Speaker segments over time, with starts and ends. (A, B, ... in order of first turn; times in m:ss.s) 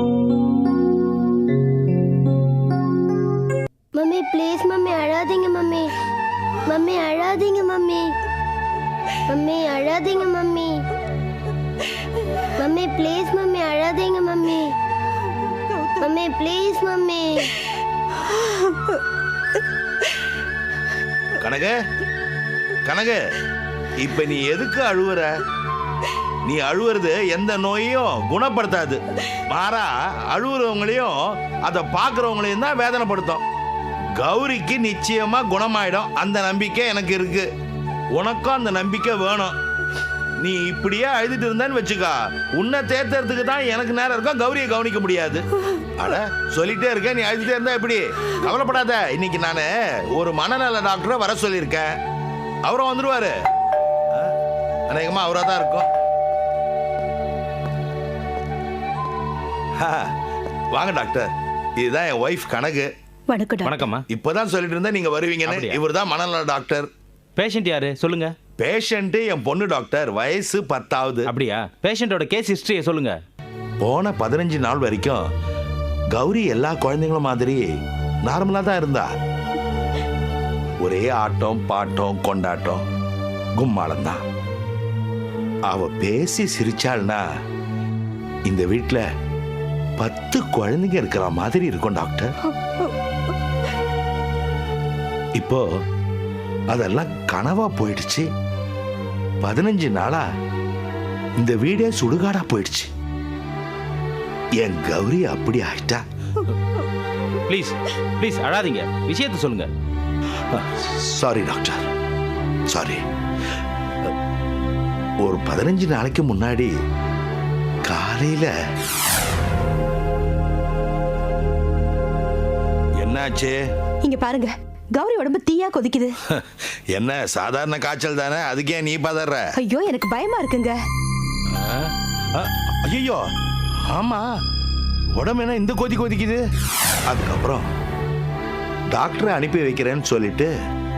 0:04.0-0:05.9 A
0:06.7-0:08.1 A
0:09.3-0:10.8 A
0:12.6-0:14.7 A
0:16.0-0:17.4 A
0:21.4-0:21.8 B
0:22.9-0:23.2 B
0:24.0-0:25.3 B
0:26.5-0:33.4 B
0:34.2-0:37.5 B
0:38.1-0:39.5 B
0:40.4-0:45.4 B
0:46.0-0:52.0 B
0:52.6-0:53.3 B
0:54.9-0:55.9 B
0:59.8-1:00.0 B
1:00.7-1:02.9 B
1:03.3-1:03.8 C
1:03.6-1:04.0 D
1:04.1-1:06.9 B
1:05.4-1:05.8 D
1:07.4-1:08.3 D
1:08.6-1:11.3 B
1:11.3-1:13.2 D
1:13.8-1:15.2 B
1:16.1-1:17.7 B
1:18.2-1:19.1 B
1:20.8-1:22.8 B
1:23.6-1:24.2 B
1:25.7-1:27.2 B
1:28.5-1:29.0 B
1:30.0-1:32.3 B
1:35.4-1:35.6 B
1:36.7-1:38.2 B
1:39.4-1:40.2 B
1:41.4-1:42.9 B
1:44.6-1:46.0 B
1:47.5-1:49.7 D
1:50.5-1:51.8 B
1:52.7-1:53.0 B
1:55.2-1:56.7 B
1:57.8-1:58.5 B
2:03.0-2:03.6 B
2:04.0-2:06.1 C
2:06.3-2:09.5 B
2:09.6-2:10.8 C
2:11.5-2:13.2 B
2:13.9-2:14.2 B
2:15.2-2:16.4 B
2:17.1-2:17.7 B
2:18.9-2:20.5 B